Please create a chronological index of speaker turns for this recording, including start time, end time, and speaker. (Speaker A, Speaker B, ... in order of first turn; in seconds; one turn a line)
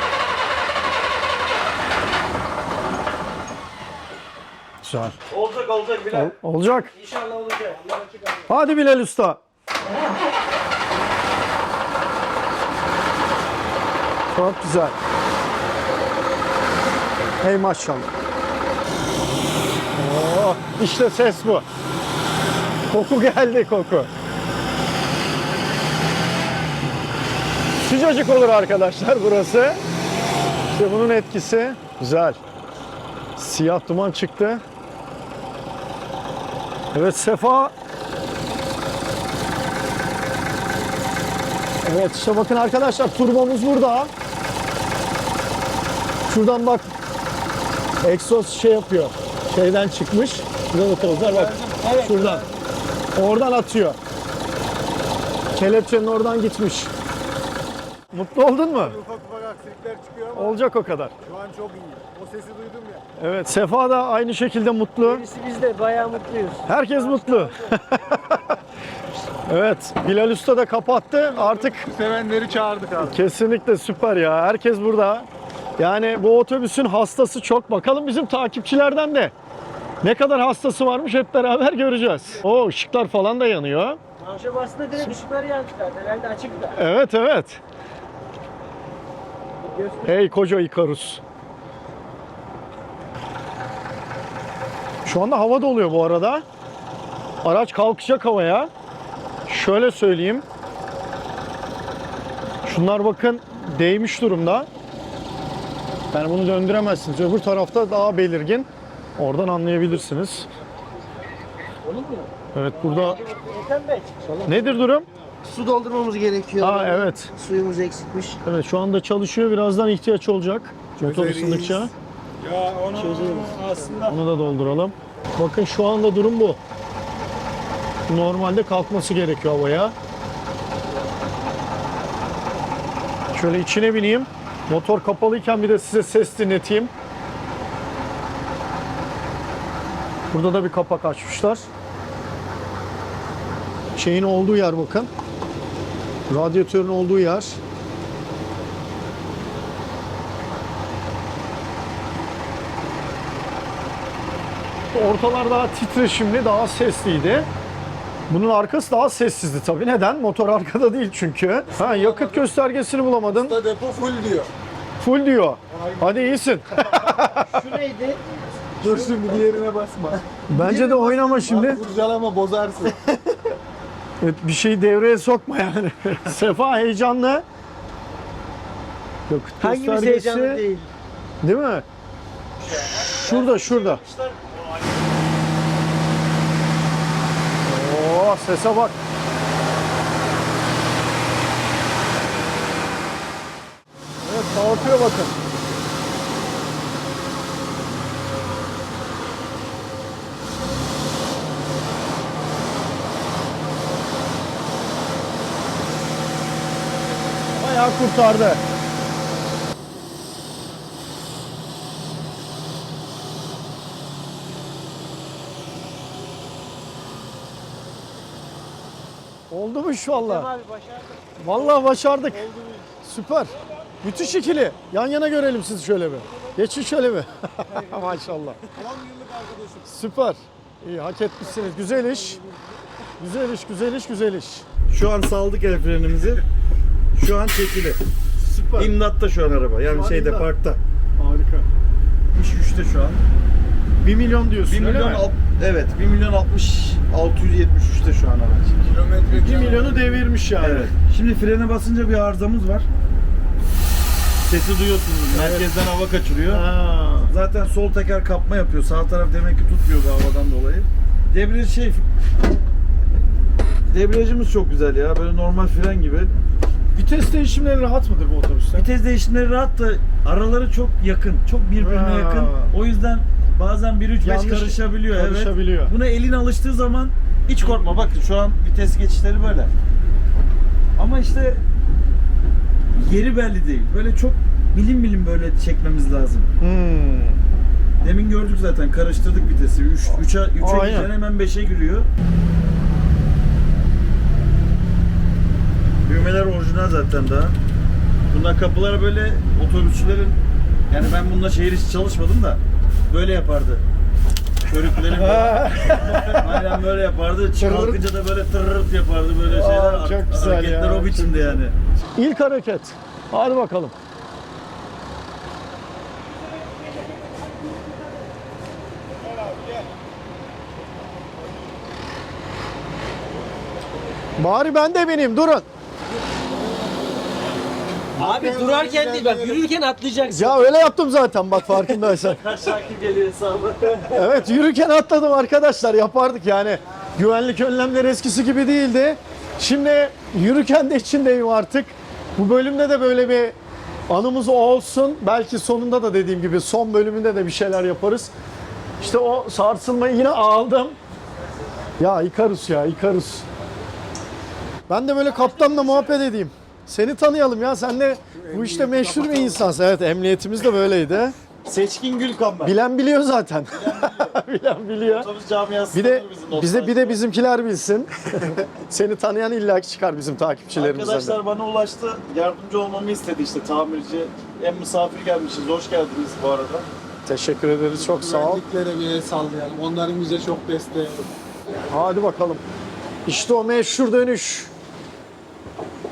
Speaker A: 4.8-5.2
Speaker B: 5.3-6.3
Speaker A: 6.1-6.9
Speaker B: 6.9-8.4
Speaker A: 8.5-9.4
Speaker A: 14.3-14.9
Speaker A: 17.4-18.1
Speaker A: 19.9-21.6
Speaker A: 22.9-24.1
Speaker A: 27.8-29.8
Speaker A: 30.7-32.4
Speaker A: 33.4-34.6
Speaker A: 36.9-37.7
Speaker A: 41.8-44.1
Speaker A: 46.3-46.9
Speaker A: 48.0-52.4
Speaker C: 51.3-52.4
Speaker A: 53.1-54.0
Speaker A: 55.5-56.9
Speaker A: 58.1-59.0
Speaker D: 58.7-60.6
Speaker A: 60.3-61.1
Speaker D: 61.2-63.0
Speaker A: 63.2-65.2
Speaker B: 65.0-67.8
Speaker A: 66.7-68.5
Speaker A: 69.5-71.9
Speaker D: 71.3-73.2
Speaker A: 73.0-75.3
Speaker A: 75.8-79.3
Speaker A: 80.0-84.0
Speaker B: 84.2-86.8
Speaker A: 86.7-87.6
Speaker B: 89.6-90.2
Speaker A: 90.0-91.2
Speaker A: 95.0-96.4
Speaker A: 97.4-98.7
Speaker A: 99.5-100.4
Speaker A: 102.6-104.7
Speaker A: 106.1-110.5
Speaker B: 111.8-114.8
Speaker A: 112.5-113.2
Speaker A: 114.4-115.1
Speaker B: 115.5-118.4
Speaker A: 116.6-117.3
Speaker A: 118.4-121.9
Speaker D: 121.0-121.9
Speaker E: 122.4-124.9
Speaker B: 123.0-124.0
Speaker A: 124.1-126.6
Speaker A: 128.1-129.9
Speaker A: 133.3-136.9
Speaker A: 140.3-141.7
Speaker A: 143.9-145.1
Speaker A: 146.3-147.6
Speaker A: 154.9-157.5
Speaker A: 158.3-163.6
Speaker D: 161.7-162.5
Speaker D: 163.3-164.5
Speaker A: 165.0-167.5
Speaker D: 165.7-167.2
Speaker B: 167.5-168.2
Speaker D: 168.8-173.0
Speaker A: 168.8-169.1
Speaker A: 170.5-171.8
Speaker A: 174.2-177.4
Speaker A: 179.3-180.6
Speaker B: 179.6-180.9
Speaker A: 181.4-181.8
Speaker C: 182.6-184.9
Speaker A: 183.1-184.0
Speaker A: 187.6-189.0
Speaker A: 194.2-195.3
Speaker A: 207.5-208.6
Speaker A: 219.5-220.5
Speaker B: 220.2-221.3
Speaker A: 221.4-222.5
Speaker D: 222.3-222.9
Speaker A: 223.0-228.6
Speaker D: 227.7-228.2
Speaker D: 228.7-229.9
Speaker A: 229.8-232.4
Speaker D: 231.5-232.7
Speaker A: 233.2-234.7
Speaker C: 234.9-236.4
Speaker C: 237.2-238.0
Speaker A: 238.4-238.9
Speaker C: 238.7-240.6
Speaker A: 239.9-241.7
Speaker C: 242.3-243.2
Speaker A: 244.0-245.3
Speaker C: 244.7-248.8
Speaker D: 248.8-250.2
Speaker A: 249.3-250.9
Speaker C: 250.5-252.9
Speaker C: 254.4-256.7
Speaker A: 255.3-255.7
Speaker A: 256.5-257.3
Speaker C: 257.3-262.0
Speaker C: 263.9-266.3
Speaker A: 266.9-268.9
Speaker C: 268.7-279.7
Speaker A: 271.8-272.7
Speaker A: 274.2-275.9
Speaker C: 281.0-281.6
Speaker C: 282.9-286.5
Speaker A: 286.6-287.4
Speaker C: 288.0-292.1
Speaker A: 290.1-291.1
Speaker C: 296.1-297.6
Speaker C: 298.3-300.4
Speaker C: 300.9-303.8
Speaker C: 304.7-311.7
Speaker A: 305.1-306.8
Speaker A: 307.6-308.0
Speaker A: 309.4-311.6
Speaker A: 312.1-313.9
Speaker A: 324.4-325.6
Speaker D: 326.3-327.3
Speaker D: 328.1-329.7
Speaker B: 328.2-330.8
Speaker A: 330.3-332.4
Speaker C: 332.0-334.3
Speaker A: 334.1-343.6
Speaker A: 344.1-348.3
Speaker A: 349.0-351.0
Speaker A: 352.0-353.5
Speaker A: 354.9-361.4
Speaker C: 355.5-356.1
Speaker D: 358.3-359.7
Speaker C: 361.6-362.8
Speaker A: 362.6-365.3
Speaker C: 363.7-364.4
Speaker C: 365.0-367.2
Speaker A: 365.9-371.4
Speaker C: 370.7-376.9
Speaker A: 377.2-378.6
Speaker D: 377.9-381.3
Speaker A: 381.9-382.6
Speaker A: 383.2-384.7